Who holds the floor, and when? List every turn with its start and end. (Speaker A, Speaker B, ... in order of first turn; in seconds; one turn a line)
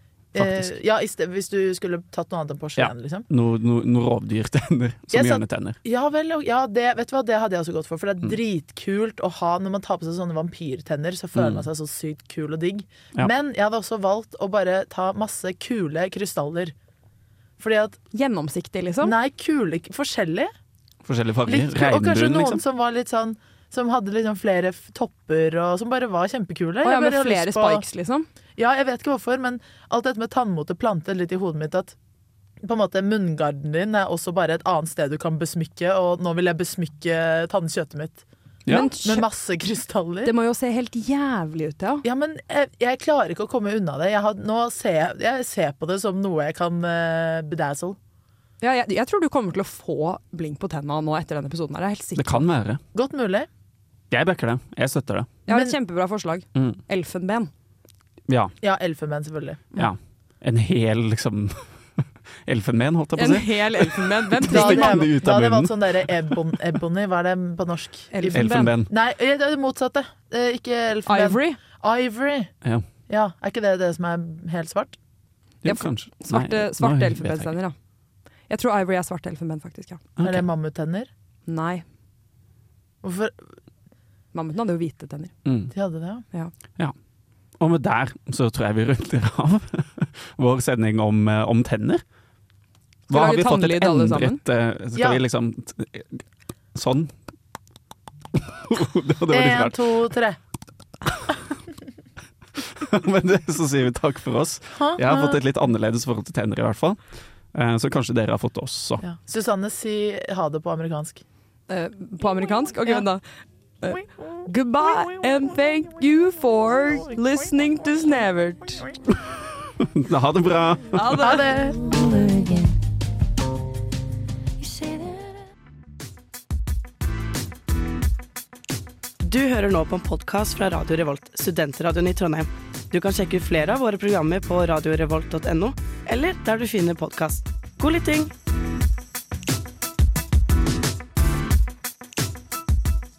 Speaker A: 0.3-3.3
Speaker B: 0.4-0.7
Speaker B: 2.8-5.8
Speaker A: 5.1-16.7
Speaker B: 11.4-11.7
Speaker A: 17.6-18.0
Speaker C: 18.1-19.1
Speaker A: 19.0-20.5
Speaker B: 21.1-22.6
Speaker A: 21.5-27.9
Speaker C: 26.8-28.3
Speaker A: 28.6-31.9
Speaker A: 32.6-38.2
Speaker C: 38.7-39.3
Speaker A: 38.8-40.3
Speaker C: 40.2-42.0
Speaker A: 42.0-48.0
Speaker C: 48.6-52.5
Speaker B: 52.2-52.8
Speaker A: 52.9-53.5
Speaker B: 54.1-55.3
Speaker C: 55.5-57.5
Speaker A: 55.5-55.8
Speaker B: 56.5-56.8
Speaker B: 58.3-58.5
Speaker A: 58.6-59.6
Speaker B: 59.8-66.6
Speaker C: 63.2-65.1
Speaker A: 64.4-72.5
Speaker C: 68.1-68.7
Speaker B: 68.3-68.9
Speaker C: 71.1-71.6
Speaker A: 73.1-75.0
Speaker B: 75.6-77.5
Speaker C: 75.7-77.8
Speaker C: 78.5-80.0
Speaker B: 80.2-80.5
Speaker A: 80.2-81.1
Speaker C: 81.5-81.8
Speaker A: 83.0-83.4
Speaker C: 84.3-85.3
Speaker B: 85.5-85.7
Speaker A: 85.7-86.2
Speaker B: 87.6-92.0
Speaker C: 93.1-94.4
Speaker B: 93.1-96.2
Speaker A: 95.0-95.2
Speaker B: 96.7-97.2
Speaker B: 98.3-99.8
Speaker A: 99.3-100.4
Speaker B: 102.6-107.0
Speaker A: 104.8-105.4
Speaker B: 107.5-109.0
Speaker A: 109.0-111.2
Speaker C: 111.7-113.2
Speaker C: 113.8-118.9
Speaker B: 119.8-121.4
Speaker C: 121.0-121.5
Speaker A: 121.2-121.8
Speaker D: 129.2-138.3